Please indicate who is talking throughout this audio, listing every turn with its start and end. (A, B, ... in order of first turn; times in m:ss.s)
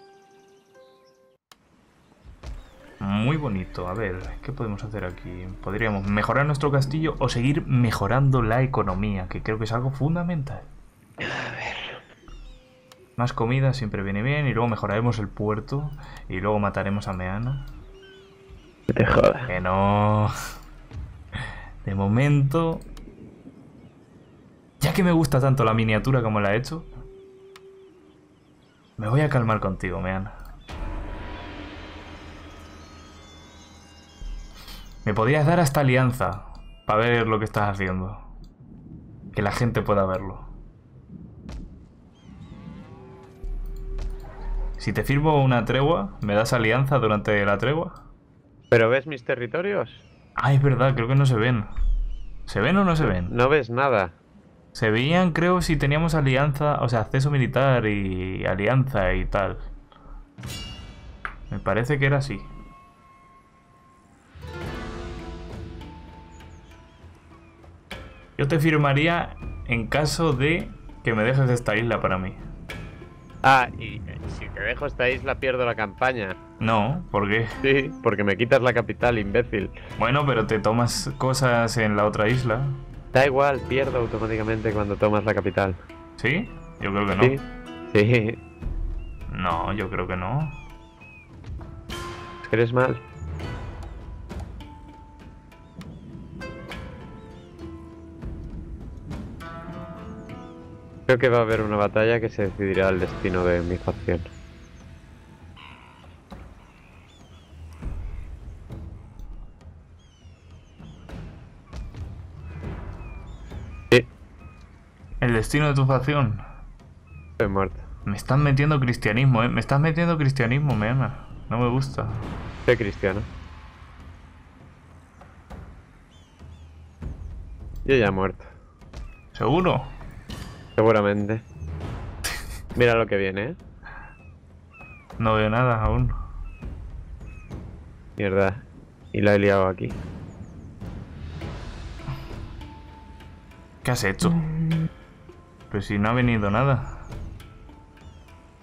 0:03.0-0:10.7 A
0:11.2-0:12.0 B
0:13.2-0:17.7 A
0:18.9-0:19.5 B
0:19.5-0:20.3 A
0:21.8-0:22.8 A
0:24.8-0:26.9 A
0:29.0-0:30.3 A
0:35.0-0:38.3 A
0:39.3-0:40.5 A
0:44.8-0:48.0 A
0:48.7-0:50.0 B
0:50.4-0:51.7 A
0:52.5-0:53.3 A
0:53.0-0:54.2 B
0:54.7-0:59.7 A
1:01.5-1:02.5 A
1:08.4-1:12.4 A
1:13.4-1:16.4 B
1:16.6-1:17.6 A
1:17.6-1:19.8 B
1:20.0-1:22.8 A
1:23.1-1:25.8 B
1:26.2-1:27.4 A
1:27.2-1:28.4 B
1:29.3-1:30.6 A
1:32.4-1:33.0 B
1:41.1-1:44.3 B
1:55.2-1:56.4 A
1:57.4-1:57.9 B
1:58.1-2:02.3 A
2:02.7-2:03.3 B
2:07.9-2:08.5 B
2:09.3-2:09.9 A
2:10.8-2:11.4 B
2:12.8-2:13.6 B
2:15.2-2:16.2 A
2:18.2-2:20.0 B
2:23.8-2:24.4 A
2:24.2-2:24.9 B
2:25.7-2:27.1 A